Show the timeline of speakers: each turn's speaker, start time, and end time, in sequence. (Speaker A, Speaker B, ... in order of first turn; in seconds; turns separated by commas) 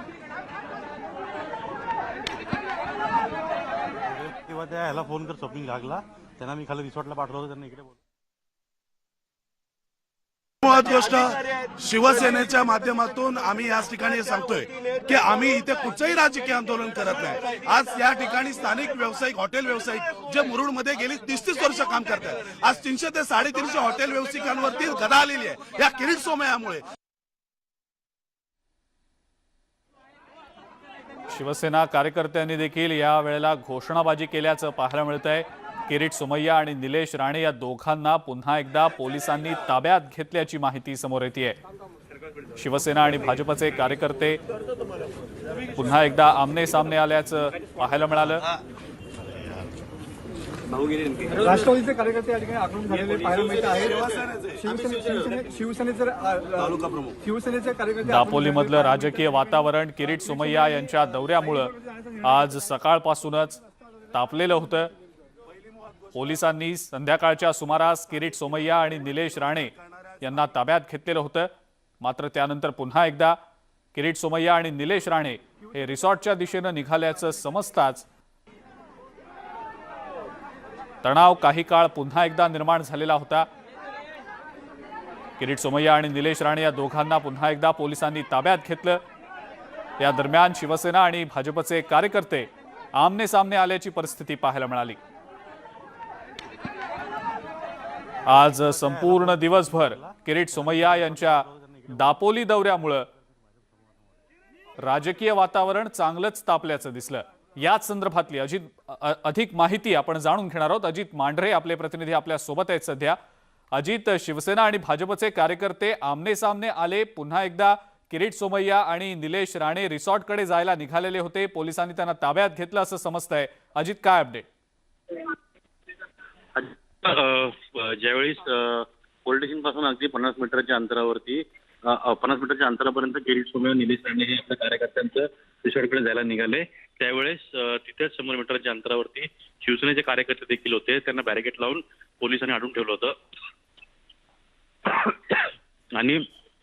Speaker A: 4.0-8.0, Speaker B: 10.6-26.9, Speaker C: 31.3-41.6, Speaker C: 42.6-44.4, Speaker C: 45.7-48.5, Speaker D: 51.4-54.0, Speaker B: 53.7-54.6, Speaker D: 54.6-58.1, Speaker B: 56.6-57.2, Speaker C: 58.0-63.6, Speaker C: 64.1-64.9, Speaker C: 66.1-73.4, Speaker C: 73.9-78.0, Speaker C: 81.0-83.5, Speaker C: 85.4-89.0, Speaker C: 90.0-95.0, Speaker C: 98.3-103.1, Speaker A: 98.3-102.2, Speaker A: 103.1-104.0, Speaker C: 104.8-113.2, Speaker C: 113.7-124.5, Speaker E: 126.5-143.1, Speaker E: 144.8-146.2